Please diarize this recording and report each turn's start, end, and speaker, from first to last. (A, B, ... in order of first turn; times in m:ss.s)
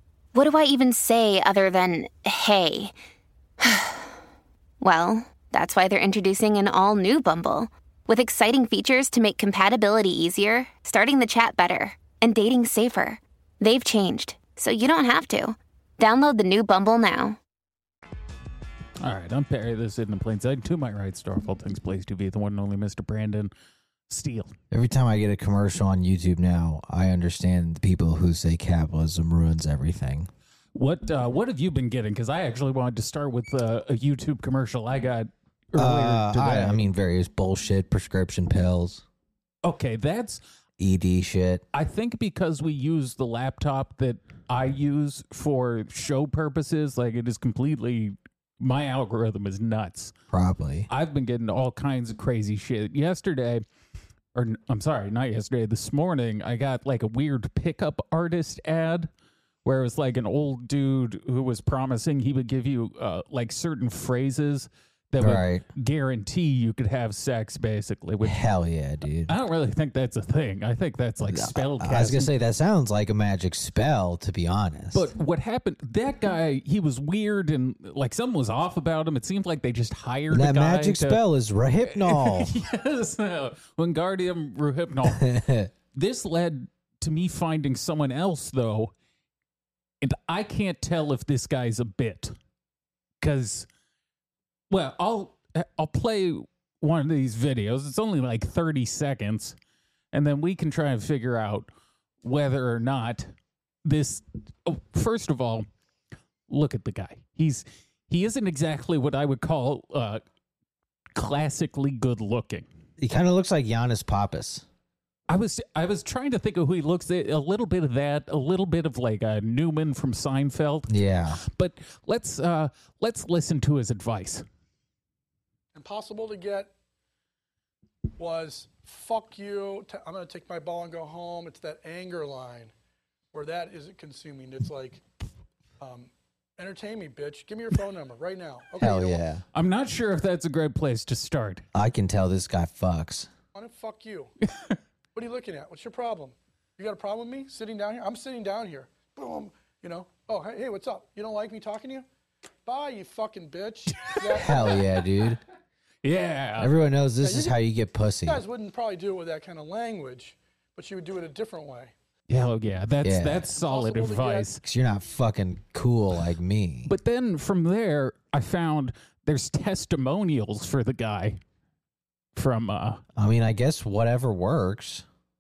0:00.4-0:02.9 A
0:04.8-0:17.4 A
0:19.0-0:23.5 B
0:24.1-0:24.5 B
0:24.7-0:30.3 C
0:30.8-0:36.9 B
0:35.8-0:39.0 C
0:39.6-0:40.4 B
0:40.8-0:41.6 C
0:41.7-0:50.1 B
0:50.3-0:50.9 C
0:50.9-0:53.6 B
0:54.3-0:59.1 B
0:59.6-1:08.4 B
1:05.2-1:05.6 C
1:08.2-1:09.3 C
1:09.3-1:12.3 B
1:11.2-1:15.1 C
1:14.9-1:21.2 B
1:20.3-1:22.5 C
1:21.8-1:25.3 B
1:25.1-1:25.7 C
1:25.9-1:28.9 B
1:30.0-1:32.3 B
1:33.2-1:33.7 B
1:34.7-1:39.6 B
1:40.1-1:41.7 B
1:42.2-1:43.3 B
1:43.8-1:45.7 B
1:46.5-1:50.2 B
1:51.2-1:52.7 B
1:53.0-1:54.6 C
1:55.3-2:04.4 B
2:00.9-2:01.4 C
2:05.8-2:06.7 D
2:08.2-2:12.7 D
2:13.3-2:15.0 D
2:15.8-2:19.2 D
2:18.8-2:19.4 C
2:19.5-2:21.6 B
2:21.7-2:23.3 C
2:23.5-2:24.3 D
2:25.1-2:32.1 D
2:32.7-2:34.8 D
2:34.3-2:35.4 C
2:36.0-2:36.7 B
2:36.6-2:38.4 C
2:37.2-2:37.6 D
2:38.2-2:41.9 D
2:42.3-2:44.6 B
2:43.0-2:43.5 C
2:43.5-2:44.5 D
2:44.6-2:46.9 C
2:46.8-2:51.4 B
2:52.4-2:53.0 B
2:53.2-2:55.0 C